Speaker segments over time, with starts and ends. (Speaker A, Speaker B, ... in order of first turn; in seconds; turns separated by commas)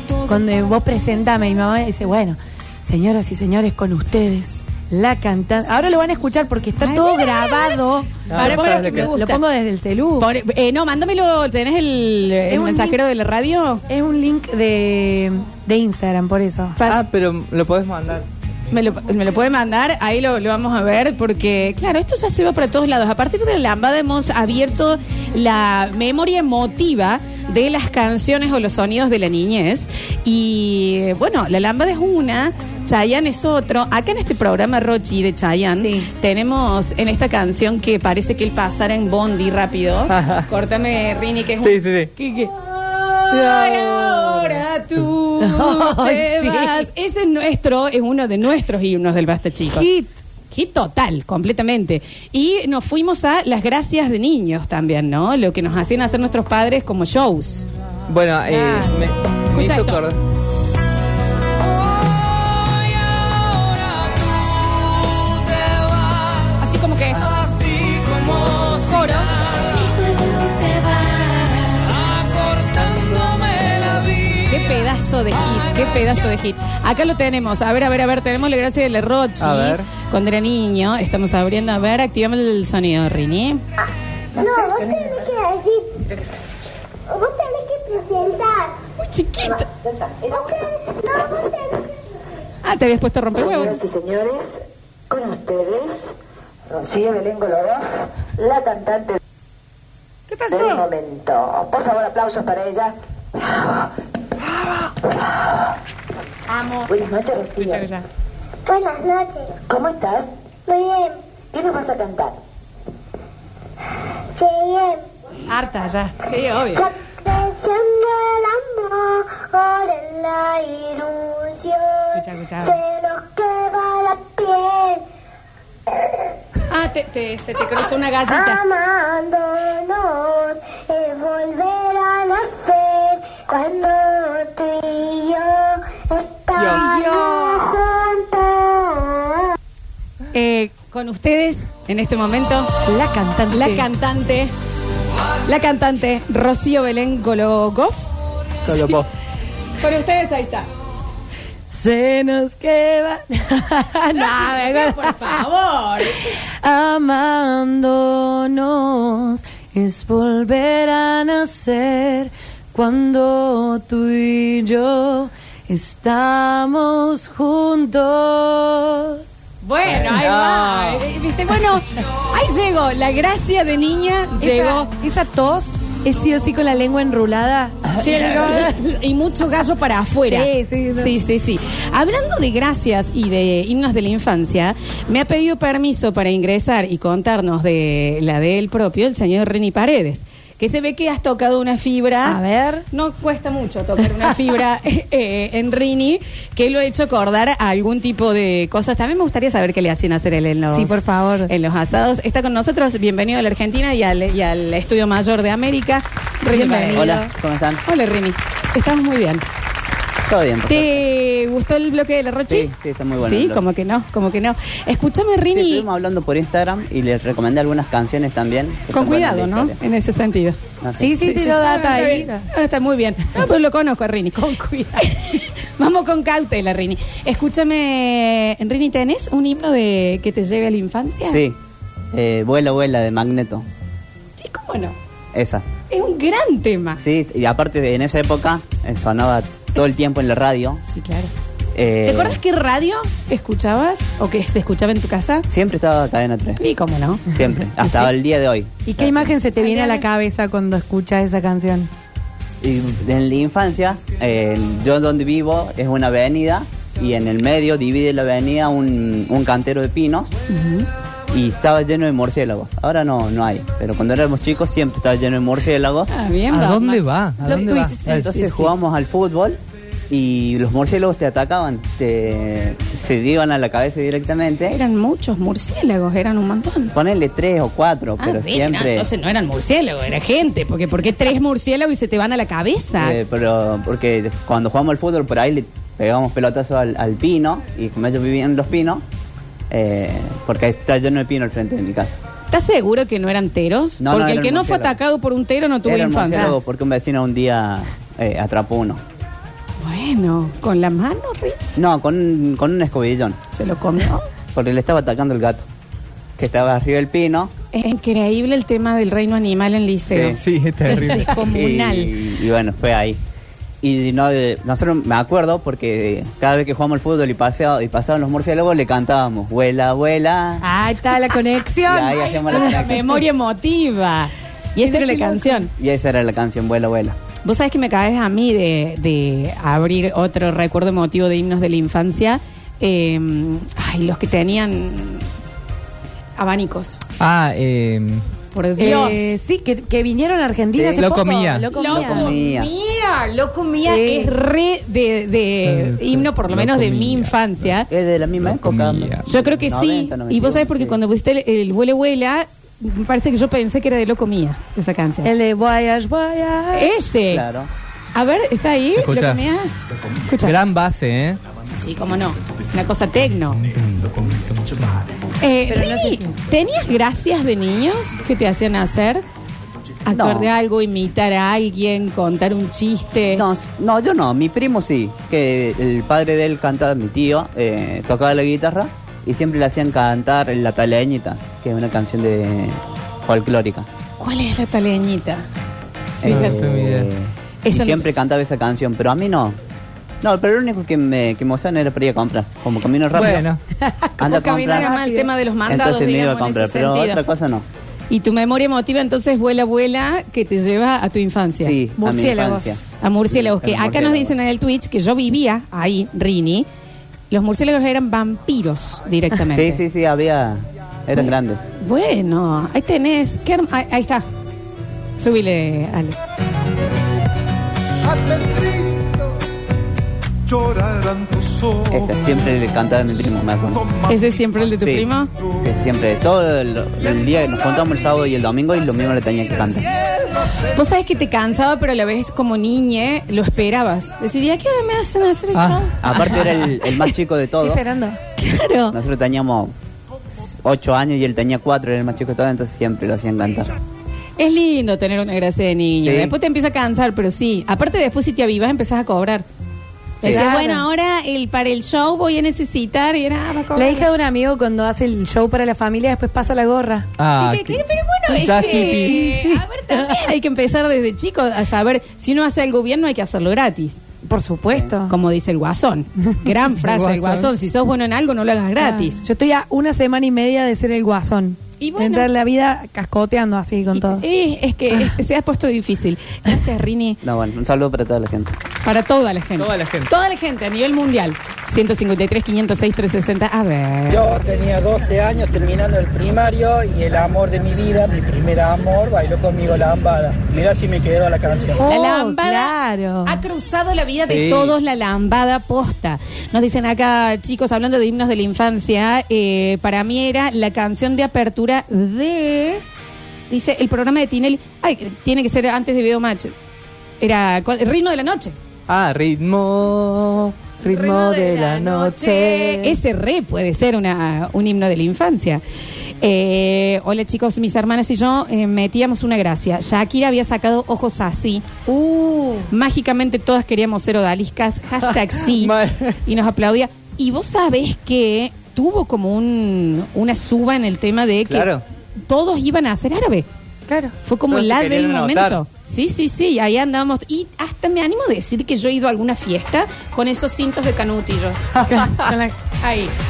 Speaker A: 0.2-10.3, Speaker B: 6.8-9.4, Speaker C: 8.3-9.1, Speaker B: 10.2-13.8, Speaker A: 12.5-13.0, Speaker A: 13.9-16.8, Speaker B: 16.8-17.0, Speaker C: 16.9-18.2, Speaker B: 18.7-49.9, Speaker A: 35.7-36.1, Speaker C: 40.1-40.5, Speaker C: 41.6-42.1, Speaker C: 43.3-44.6, Speaker A: 45.4-46.9, Speaker A: 49.7-50.1, Speaker B: 50.5-57.7, Speaker C: 58.1-60.2, Speaker B: 58.5-58.9, Speaker B: 59.5-60.0, Speaker B: 66.6-67.3, Speaker B: 68.7-69.8, Speaker A: 70.0-70.5, Speaker B: 74.5-83.6, Speaker C: 79.4-79.9, Speaker D: 84.4-86.0, Speaker D: 87.1-88.7, Speaker B: 89.0-89.7, Speaker E: 89.8-90.5, Speaker D: 90.4-91.8, Speaker B: 92.6-93.8, Speaker E: 93.4-96.1, Speaker E: 96.7-99.2, Speaker A: 100.3-100.8, Speaker E: 100.5-103.9, Speaker E: 104.6-105.7, Speaker B: 106.5-106.9, Speaker E: 106.9-107.9, Speaker D: 108.7-109.6, Speaker E: 109.7-110.3, Speaker D: 110.7-111.2, Speaker E: 111.5-112.4, Speaker D: 114.4-115.0, Speaker A: 115.5-116.1, Speaker B: 116.2-116.8, Speaker D: 116.7-125.0, Speaker A: 122.2-122.7, Speaker B: 126.7-128.6, Speaker D: 128.3-139.4, Speaker A: 136.6-137.6, Speaker B: 140.3-142.7, Speaker A: 142.9-143.9, Speaker B: 143.5-144.5, Speaker B: 145.5-148.1, Speaker C: 148.7-149.1, Speaker B: 149.8-150.7, Speaker A: 151.7-155.4, Speaker B: 154.1-156.3, Speaker A: 156.2-169.2, Speaker B: 169.6-174.9, Speaker C: 169.9-171.0, Speaker A: 174.4-178.8, Speaker B: 178.0-192.4, Speaker A: 180.3-181.2, Speaker A: 192.2-192.8, Speaker B: 192.9-207.2, Speaker A: 200.7-201.5, Speaker A: 206.5-207.3, Speaker F: 206.9-207.8, Speaker B: 207.8-209.4, Speaker F: 210.3-211.1, Speaker B: 210.7-215.9, Speaker F: 212.5-213.6, Speaker F: 215.5-219.8, Speaker B: 218.9-220.6, Speaker F: 220.8-221.2, Speaker A: 221.0-222.5, Speaker B: 221.2-224.4, Speaker A: 224.3-225.1, Speaker B: 225.0-231.4, Speaker F: 231.2-231.6, Speaker F: 232.1-233.7, Speaker B: 234.4-235.0, Speaker F: 235.3-235.7, Speaker B: 235.9-237.0, Speaker F: 237.0-240.8, Speaker B: 240.8-241.3, Speaker F: 241.8-242.4, Speaker B: 242.0-245.5, Speaker F: 245.5-246.6, Speaker B: 246.6-247.2, Speaker F: 247.3-249.3, Speaker A: 248.9-251.9, Speaker B: 249.6-250.1, Speaker F: 252.6-260.3, Speaker B: 260.5-260.9, Speaker F: 261.3-266.1, Speaker B: 266.1-268.7, Speaker C: 266.5-268.3, Speaker A: 267.4-268.1, Speaker F: 268.1-274.8, Speaker B: 274.6-276.9, Speaker F: 276.9-279.1, Speaker B: 278.2-283.2, Speaker F: 283.0-289.0, Speaker F: 289.7-292.2, Speaker B: 292.5-296.6, Speaker F: 294.0-295.0, Speaker F: 295.8-299.0, Speaker B: 299.8-301.6, Speaker F: 301.8-303.4, Speaker B: 303.5-304.3, Speaker F: 304.5-305.6, Speaker F: 306.4-307.5, Speaker B: 307.7-312.1, Speaker F: 310.1-310.4, Speaker C: 310.4-311.4, Speaker F: 311.4-313.2, Speaker F: 313.8-320.6, Speaker A: 320.6-322.9, Speaker F: 321.8-323.1, Speaker B: 322.1-325.7, Speaker A: 324.8-325.7, Speaker F: 325.7-327.2, Speaker B: 327.4-335.3, Speaker B: 336.4-337.1, Speaker C: 337.2-338.2, Speaker B: 338.5-339.4, Speaker A: 338.8-342.3, Speaker F: 340.8-341.2, Speaker C: 340.9-341.7, Speaker B: 341.7-347.9, Speaker F: 341.8-342.7, Speaker A: 343.8-344.4, Speaker C: 345.6-347.4, Speaker F: 347.9-351.0, Speaker C: 348.4-349.3, Speaker B: 349.2-355.3, Speaker A: 355.2-356.9, Speaker B: 356.7-357.5, Speaker F: 357.3-357.7, Speaker B: 358.1-359.7, Speaker C: 359.0-359.4, Speaker B: 360.3-360.6, Speaker C: 360.4-361.4, Speaker B: 361.8-363.6, Speaker C: 363.8-365.0, Speaker B: 365.4-369.2, Speaker A: 365.7-366.4, Speaker B: 370.1-373.4, Speaker F: 370.1-370.5, Speaker F: 373.3-383.9, Speaker B: 384.2-385.4, Speaker B: 386.2-386.6, Speaker F: 386.2-389.6, Speaker C: 386.3-387.1, Speaker B: 387.6-388.1, Speaker F: 390.2-393.4, Speaker C: 393.1-393.6, Speaker A: 393.8-395.3, Speaker F: 394.2-395.0, Speaker B: 394.6-397.2, Speaker F: 395.7-397.6, Speaker B: 398.1-401.8, Speaker F: 401.6-404.4, Speaker A: 402.0-402.8, Speaker B: 403.0-406.7, Speaker B: 407.3-409.8, Speaker F: 409.5-411.6, Speaker B: 411.1-414.3, Speaker B: 415.2-416.2, Speaker G: 418.0-419.2, Speaker G: 420.5-422.5, Speaker F: 421.9-423.8, Speaker G: 423.7-424.7, Speaker B: 424.1-425.3, Speaker F: 424.8-429.9, Speaker B: 430.8-436.4, Speaker C: 435.5-436.3, Speaker F: 436.0-437.8, Speaker A: 437.6-438.2, Speaker B: 438.4-439.0, Speaker F: 438.9-439.7, Speaker F: 440.3-443.7, Speaker B: 444.4-449.5, Speaker F: 446.0-446.4, Speaker F: 450.2-450.5, Speaker B: 450.2-454.1, Speaker A: 450.2-450.9, Speaker A: 453.7-457.1, Speaker C: 457.2-459.3, Speaker B: 457.4-464.0, Speaker A: 458.9-460.2, Speaker A: 464.2-465.1, Speaker B: 465.1-469.2, Speaker C: 466.8-467.5, Speaker A: 468.8-474.3, Speaker B: 471.8-472.3, Speaker B: 473.9-477.2, Speaker F: 477.2-478.6, Speaker B: 478.8-484.3, Speaker C: 479.6-480.1, Speaker H: 484.1-491.8, Speaker A: 491.8-493.4, Speaker B: 491.8-502.8, Speaker C: 494.2-494.8, Speaker B: 503.5-506.5, Speaker B: 507.2-508.6, Speaker C: 508.9-513.0, Speaker B: 510.9-515.6, Speaker A: 510.9-512.5, Speaker B: 516.2-521.8, Speaker A: 521.9-522.6, Speaker B: 522.7-533.5, Speaker C: 525.1-526.2, Speaker C: 531.5-531.8, Speaker A: 533.9-534.1, Speaker B: 534.2-541.6, Speaker C: 534.5-535.6, Speaker A: 541.9-542.7, Speaker B: 542.8-543.1